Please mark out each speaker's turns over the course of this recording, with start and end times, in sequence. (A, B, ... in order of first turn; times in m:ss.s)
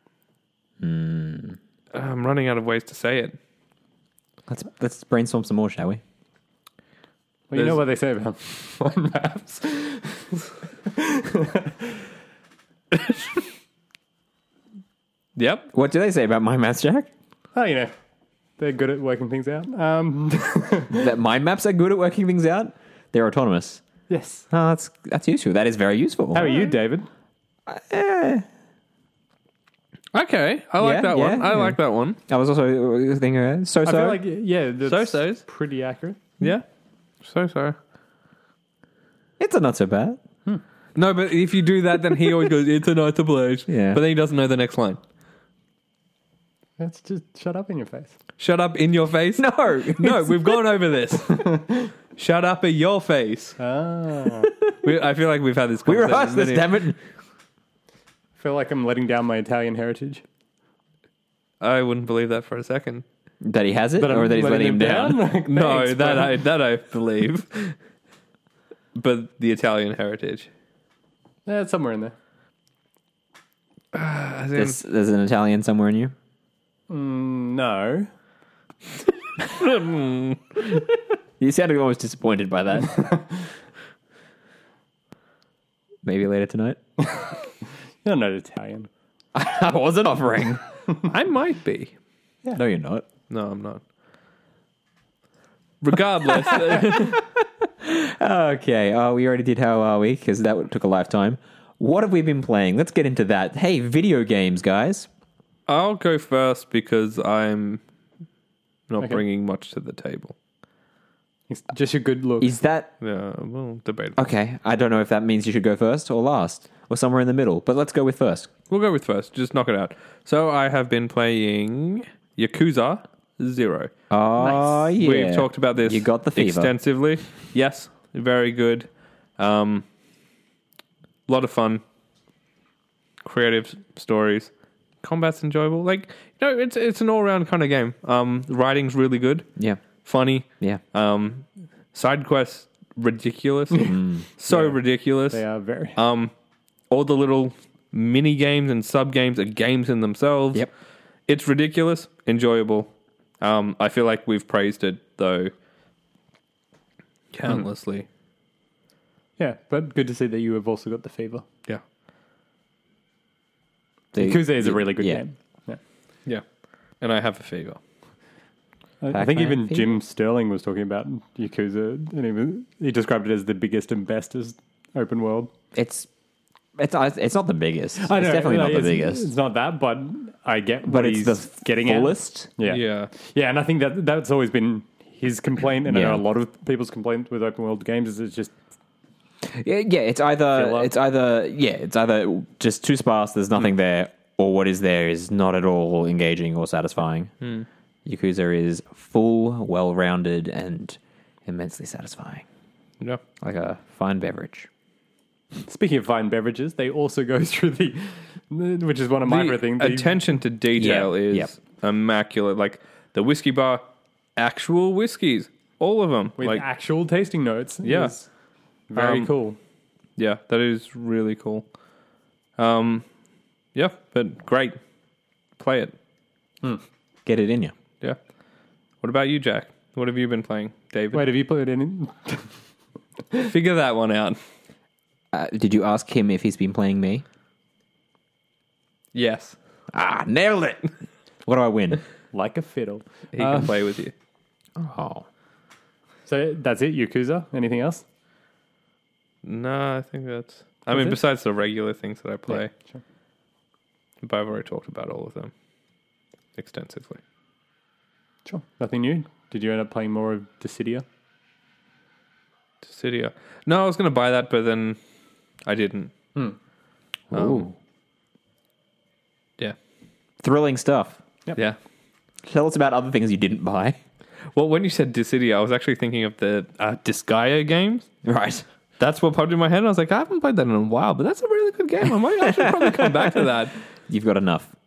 0:00.8-0:01.6 A
0:01.9-0:03.4 B
0:04.5-0:06.0 A
0:07.5-0:12.0 C
0:15.4-0:15.7 B
0:15.7-0:17.1 A
0:17.5-0:17.9 C
0:18.6-0:21.1 C
0:20.9-0:23.8 A
0:24.1-0:24.5 C
0:24.5-0:26.6 A
0:26.3-0:27.0 C
0:27.7-0:28.4 A
0:30.1-0:32.2 B
0:30.8-0:31.8 A
0:32.3-0:34.2 A
0:33.8-0:36.2 C
0:34.8-0:35.4 B
0:37.2-0:37.8 B
0:39.4-0:40.2 A
0:41.0-0:45.0 B
0:43.7-0:44.0 A
0:46.8-0:48.1 C
0:48.4-0:51.6 B
0:49.4-0:50.6 A
0:51.5-0:51.9 C
0:52.2-0:53.6 B
0:53.6-0:54.5 C
0:54.8-0:56.9 B
0:55.8-0:57.0 A
0:58.4-1:00.2 C
1:01.6-1:03.0 B
1:03.4-1:05.3 A
1:04.0-1:06.4 C
1:05.5-1:07.8 B
1:08.9-1:10.5 B
1:11.5-1:12.1 C
1:13.9-1:14.8 B
1:14.6-1:16.1 A
1:16.9-1:18.1 C
1:19.4-1:20.4 B
1:21.4-1:23.2 A
1:26.0-1:26.8 A
1:28.0-1:28.9 C
1:29.3-1:30.6 A
1:31.0-1:31.9 B
1:32.5-1:33.0 A
1:33.3-1:33.8 B
1:35.8-1:37.2 B
1:36.4-1:45.1 A
1:45.7-1:47.8 B
1:48.9-1:50.3 B
1:51.5-1:52.6 C
1:52.4-1:52.9 A
1:53.0-1:54.2 B
1:54.2-1:58.5 A
1:58.7-2:03.9 B
2:04.1-2:06.7 A
2:04.4-2:04.7 C
2:05.0-2:09.8 B
2:11.3-2:11.8 B
2:13.2-2:14.5 B
2:15.0-2:19.5 B
2:19.6-2:19.8 A
2:20.0-2:25.4 B
2:23.8-2:24.2 A
2:24.5-2:24.8 C
2:25.3-2:26.0 C
2:26.0-2:26.3 B
2:26.9-2:30.7 B
2:31.3-2:35.5 B
2:37.3-2:38.1 B
2:39.4-2:41.4 C
2:44.1-2:45.2 A
2:44.2-2:45.8 C
2:47.0-2:47.8 B
2:49.0-2:55.5 C
2:49.1-2:49.8 A
2:55.7-2:56.1 A
2:56.8-2:59.3 A
2:58.0-3:08.5 C
3:00.9-3:02.5 A
3:02.6-3:03.1 B
3:05.9-3:06.2 A
3:09.4-3:17.3 A
3:10.5-3:10.9 C
3:18.0-3:22.4 A
3:23.4-3:24.7 A
3:25.6-3:30.2 C
3:29.3-3:33.8 B
3:30.8-3:31.5 A
3:34.4-3:36.6 B
3:36.4-3:38.3 C
3:37.8-3:38.1 B
3:38.9-3:39.6 C
3:38.9-3:39.3 B
3:40.2-3:41.6 B
3:42.6-3:43.0 B
3:43.7-3:44.8 B
3:45.6-3:45.9 B
3:47.2-3:47.7 A
3:49.0-3:51.3 B
3:51.1-3:52.5 C
3:53.4-3:54.4 B
3:55.3-3:57.2 A
3:59.1-3:59.6 B
3:59.9-4:00.9 A
4:01.4-4:02.0 A
4:02.3-4:03.7 C
4:03.3-4:04.1 B
4:04.8-4:05.2 A
4:06.2-4:08.0 C
4:09.4-4:12.7 B
4:10.9-4:11.2 C
4:12.5-4:13.0 C
4:14.2-4:15.5 B
4:16.6-4:17.2 B
4:18.4-4:21.0 C
4:22.8-4:25.0 B
4:25.6-4:26.1 B
4:27.3-4:27.7 A
4:27.3-4:27.7 B
4:30.4-4:31.2 A
4:32.4-4:34.0 A
4:34.5-4:38.1 B
4:38.2-4:38.6 A
4:39.0-4:43.8 B
4:42.4-4:43.5 A
4:44.1-4:44.7 A